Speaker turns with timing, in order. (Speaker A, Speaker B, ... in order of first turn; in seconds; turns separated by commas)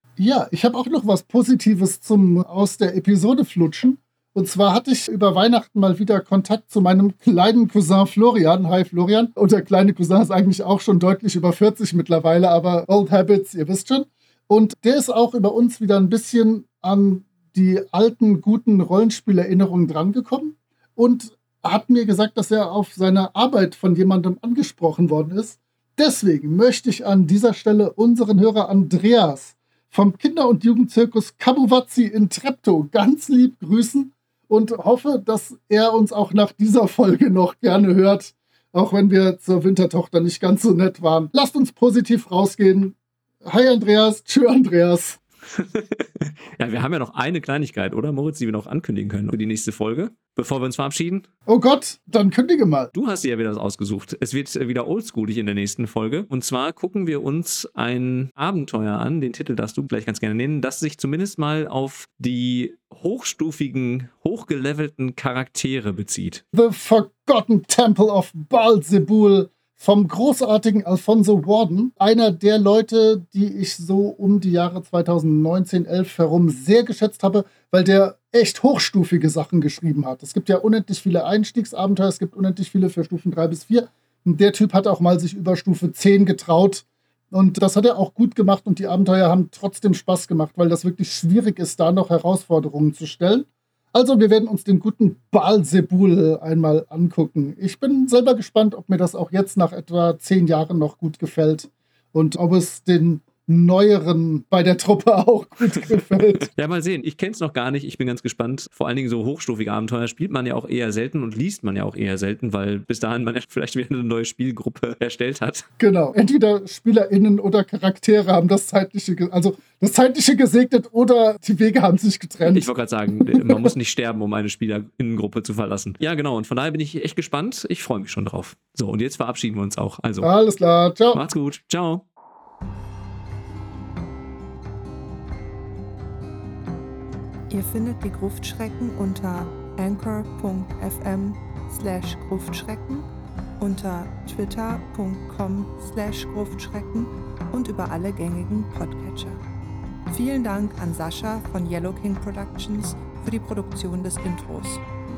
Speaker A: 0.2-45.2, Speaker B: 45.5-51.3, Speaker A: 51.5-52.9, Speaker B: 52.9-66.4, Speaker A: 66.5-106.5, Speaker B: 106.3-115.7, Speaker A: 115.8-122.7, Speaker B: 122.5-130.3, Speaker A: 123.3-123.7, Speaker A: 130.2-131.2, Speaker B: 131.1-132.0, Speaker C: 137.5-143.1, Speaker C: 143.6-149.4, Speaker C: 150.1-154.8